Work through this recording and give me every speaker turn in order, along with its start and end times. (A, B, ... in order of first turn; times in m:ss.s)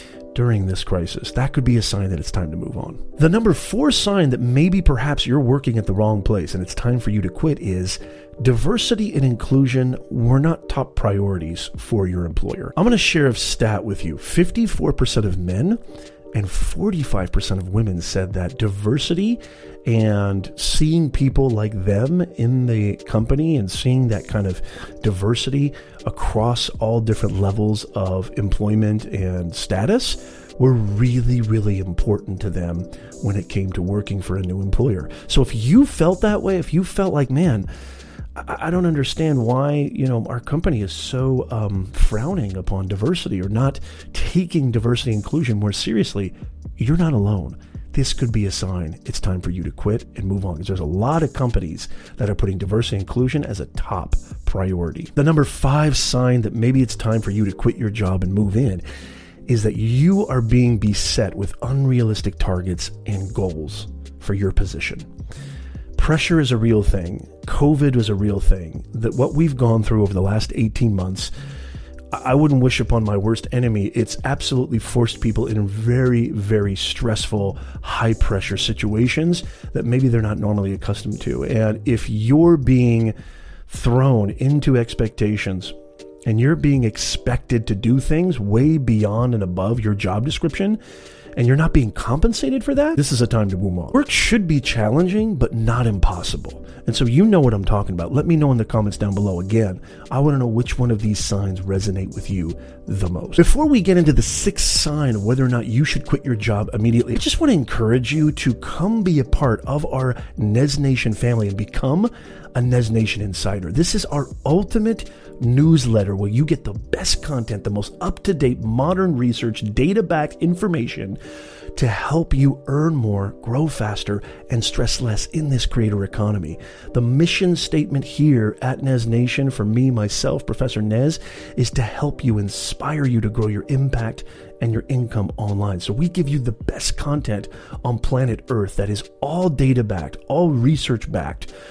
0:00.3-0:15.8 A
0:16.3-0:37.7 A
0:38.4-0:58.8 A
0:59.5-1:05.1 A
1:06.0-1:11.3 A
1:12.1-1:23.1 A
1:23.7-1:30.8 A
1:31.4-2:01.2 A
2:01.7-2:21.5 A